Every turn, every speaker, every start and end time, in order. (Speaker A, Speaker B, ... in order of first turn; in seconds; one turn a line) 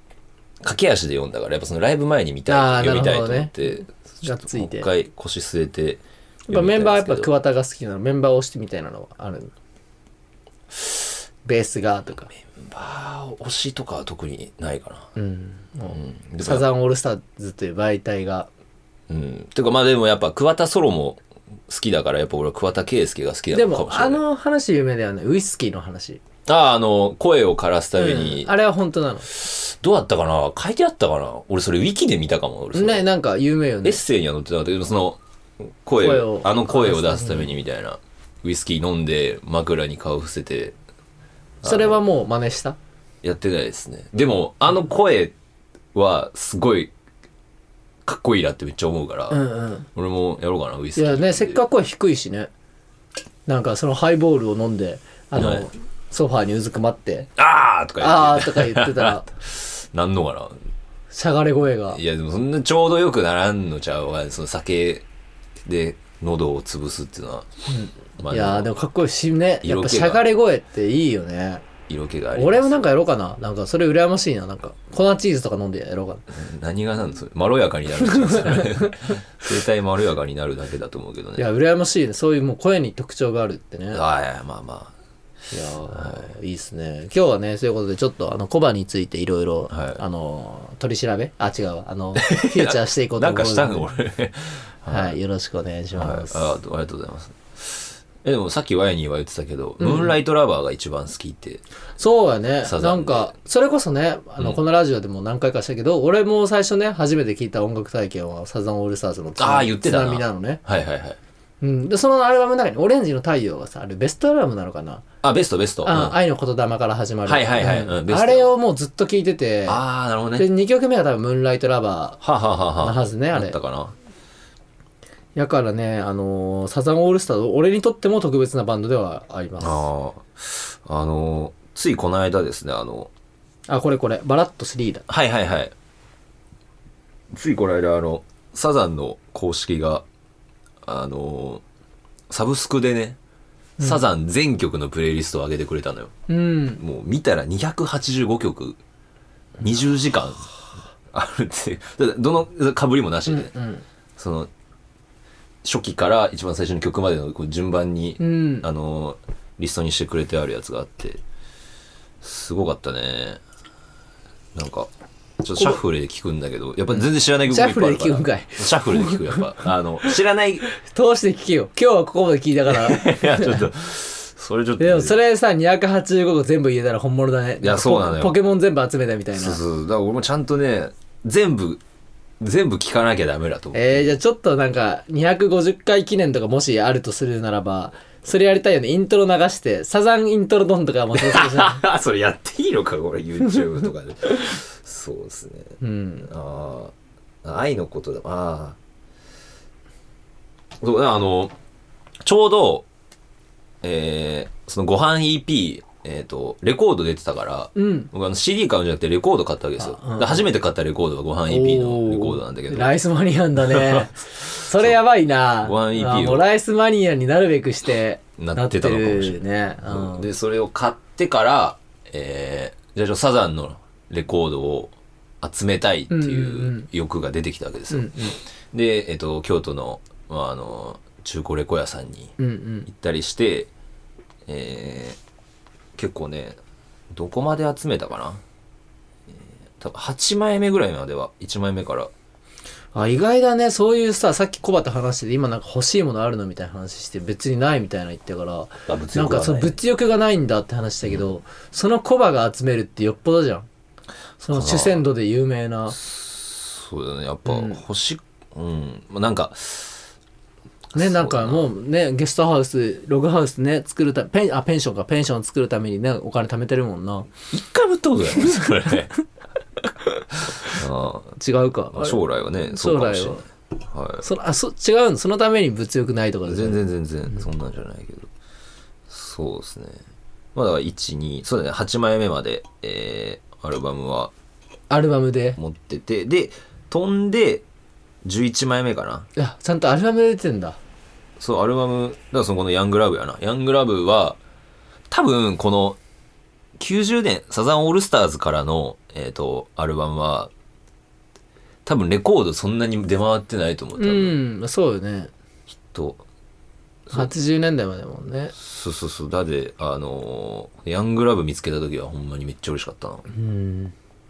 Speaker A: 0.6-7.3
Speaker B: 2.5-4.9
Speaker B: 6.5-9.5
Speaker B: 11.4-12.3
Speaker A: 12.4-15.1
Speaker B: 15.2-18.5
Speaker A: 15.9-16.7
Speaker A: 19.1-24.2
Speaker B: 23.5-26.2
Speaker A: 26.5-28.5
Speaker B: 28.0-29.3
Speaker A: 29.3-33.0
Speaker B: 32.7-34.0
Speaker A: 33.8-40.8
Speaker B: 36.0-37.5
Speaker A: 41.6-42.0
Speaker B: 41.6-42.8
Speaker A: 43.2-45.3
Speaker A: 45.9-46.9
Speaker A: 48.0-49.4
Speaker B: 49.3-49.9
Speaker A: 50.0-51.6
Speaker B: 51.0-52.5
Speaker B: 53.5-57.3
Speaker A: 55.3-55.7
Speaker A: 57.4-60.6
Speaker B: 58.0-59.3
Speaker B: 61.1-62.0
Speaker A: 61.9-65.1
Speaker A: 65.7-67.5
Speaker B: 67.7-71.6
Speaker A: 68.2-68.7
Speaker A: 69.6-70.2
Speaker A: 71.9-72.9
Speaker B: 72.3-76.3
Speaker A: 76.3-81.5
Speaker B: 78.0-79.2
Speaker B: 81.4-84.0
Speaker A: 83.9-84.9
Speaker B: 85.5-93.9
Speaker A: 85.9-86.3
Speaker A: 89.7-90.0
Speaker A: 92.2-95.2
Speaker B: 94.9-96.6
Speaker A: 96.0-101.6
Speaker B: 99.8-100.2
Speaker B: 102.0-110.6
Speaker A: 102.6-103.3
Speaker A: 109.4-111.2
Speaker B: 111.6-115.1
Speaker A: 115.2-116.2
Speaker B: 115.8-119.8
Speaker A: 117.3-118.6
Speaker A: 119.7-120.5
Speaker B: 120.4-122.2
Speaker A: 122.2-123.9
Speaker B: 122.8-123.6
Speaker B: 125.4-129.9
Speaker A: 129.6-133.1
Speaker B: 133.7-135.1
Speaker A: 135.1-135.7
Speaker A: 137.3-140.1
Speaker A: 140.8-141.6
Speaker A: 142.3-143.2
Speaker B: 143.8-144.0
Speaker A: 143.8-146.1
Speaker B: 146.3-146.8
Speaker A: 146.8-148.8
Speaker A: 149.6-150.6
Speaker A: 151.1-153.5
Speaker B: 153.3-153.8
Speaker A: 154.2-154.5
Speaker A: 155.6-161.2
Speaker B: 158.2-158.7
Speaker A: 162.2-163.4
Speaker A: 164.5-170.7
Speaker B: 167.0-169.5
Speaker B: 170.7-173.7
Speaker A: 172.7-175.2
Speaker B: 174.8-179.6
Speaker A: 177.6-178.4
Speaker A: 179.3-181.8
Speaker A: 182.4-184.1
Speaker B: 183.7-191.8
Speaker A: 191.2-198.8
Speaker B: 195.8-196.3
Speaker A: 200.8-201.5
Speaker A: 202.2-202.9
Speaker A: 203.8-212.9
Speaker B: 207.8-208.1
Speaker B: 209.8-210.5
Speaker B: 211.5-220.3
Speaker A: 213.7-215.0
Speaker A: 215.6-216.5
Speaker A: 218.4-228.2
Speaker B: 226.1-226.9
Speaker B: 227.9-228.4
Speaker A: 228.7-232.3
Speaker B: 232.4-232.9
Speaker A: 232.9-233.7
Speaker A: 234.5-235.2
Speaker A: 236.0-236.6
Speaker A: 237.1-238.4
Speaker A: 239.8-242.1
Speaker B: 242.9-253.7
Speaker A: 248.9-249.8
Speaker A: 251.0-251.3
Speaker B: 254.4-256.0
Speaker A: 254.5-255.1
Speaker A: 255.9-260.0
Speaker B: 257.5-257.8
Speaker A: 260.9-261.7
Speaker B: 260.9-267.3
Speaker A: 267.5-269.1
Speaker B: 268.4-268.9
Speaker B: 270.0-270.8
Speaker A: 270.6-271.4
Speaker B: 271.4-273.4
Speaker A: 271.9-274.3
Speaker B: 274.2-277.4
Speaker A: 276.5-278.3
Speaker A: 279.1-280.0
Speaker A: 280.6-284.3
Speaker B: 284.9-285.6
Speaker A: 285.6-287.6
Speaker A: 288.2-289.3
Speaker B: 289.4-290.8
Speaker A: 291.4-294.4
Speaker A: 295.1-296.0
Speaker A: 296.8-300.5
Speaker A: 301.9-304.4
Speaker B: 304.0-305.3
Speaker A: 305.9-306.2
Speaker B: 307.1-308.6
Speaker A: 308.6-313.2
Speaker B: 313.3-313.9